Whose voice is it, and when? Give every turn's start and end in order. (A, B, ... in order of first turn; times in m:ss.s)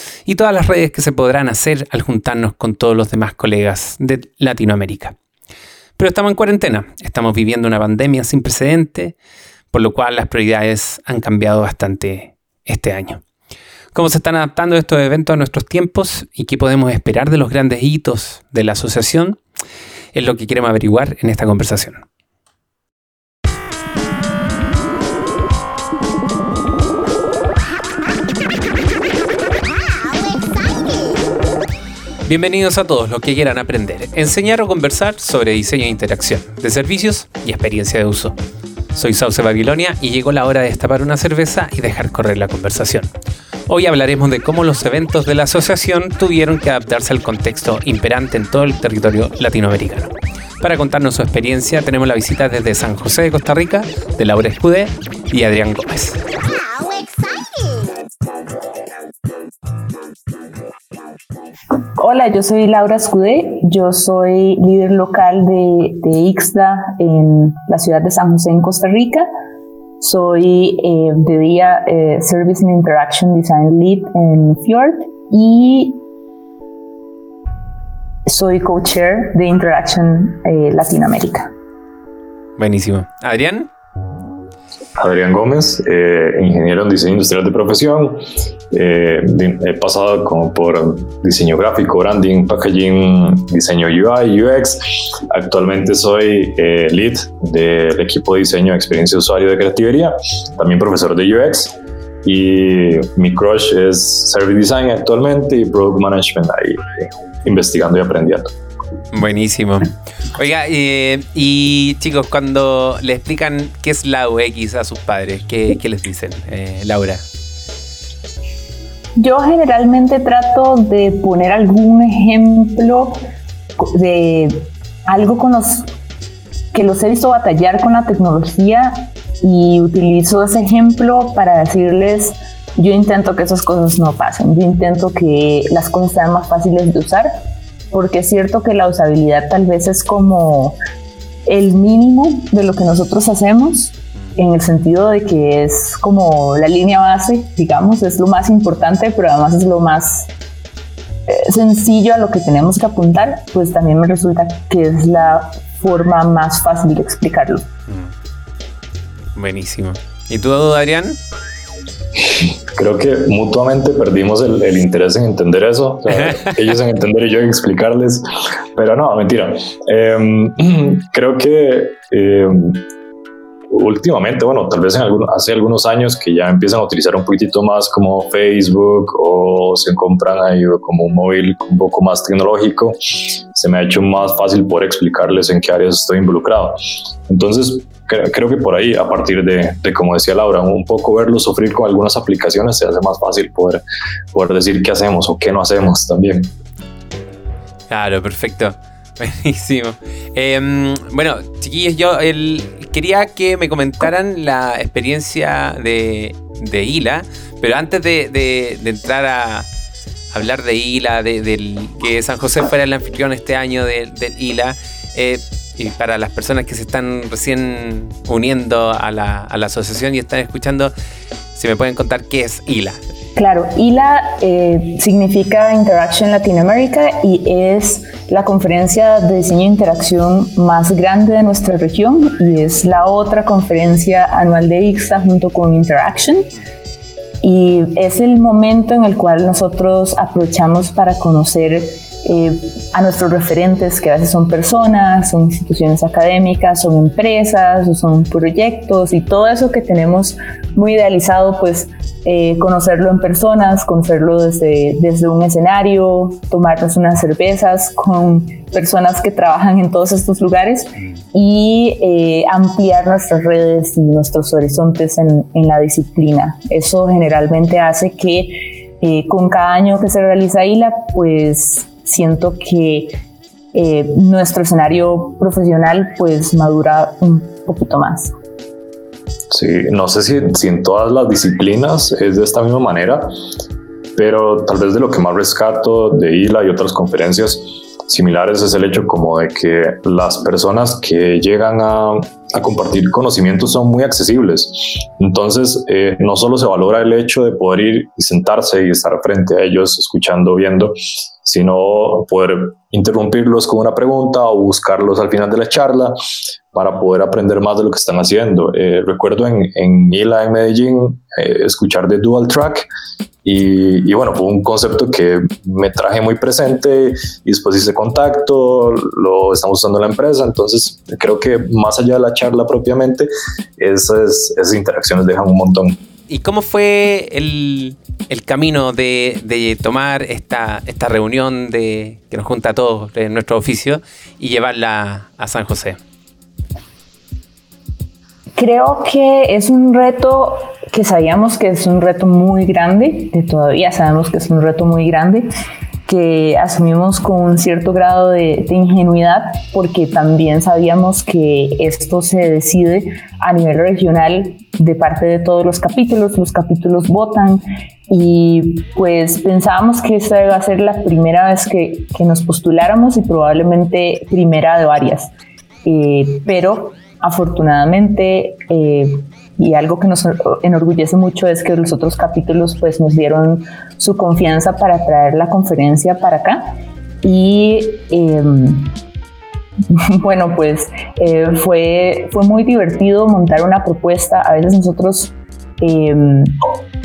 0:00.3-0:05.2 A
0:06.0-0:09.1 A
0:09.7-0:13.2 A
0:13.9-0:19.4 A
0:20.1-0:22.0 A
0:32.3-0:38.4 A
0:38.9-0:43.1 A
0:43.7-0:56.2 A
1:02.0-1:09.3 B
1:10.0-1:16.0 B
1:18.3-1:21.5 B
1:22.6-1:23.7 A
1:25.0-1:48.5 C
1:49.1-1:57.2 A
1:59.2-2:03.2 B
2:03.8-2:05.9 B
2:06.7-2:17.3 B
2:17.9-2:20.8 B
2:21.5-2:30.3 B
2:31.3-2:37.7 B
2:39.4-2:41.2 A
2:42.3-2:52.8 C
2:46.2-2:46.5 A
2:53.7-3:13.8 C
3:14.3-3:16.5 C
3:17.9-3:29.7 A
3:30.3-3:40.9 A
3:41.6-3:43.0 A
3:43.4-3:56.5 B
3:57.4-4:33.2 B
4:33.7-4:38.3 B
4:39.5-4:43.3 C
4:44.2-5:06.2 C
5:06.7-5:12.9 C
5:13.4-5:26.0 C
5:26.3-5:36.0 A
5:38.6-5:45.5 B
5:46.1-6:05.3 B
6:05.8-6:19.0 B
6:19.9-6:26.6 B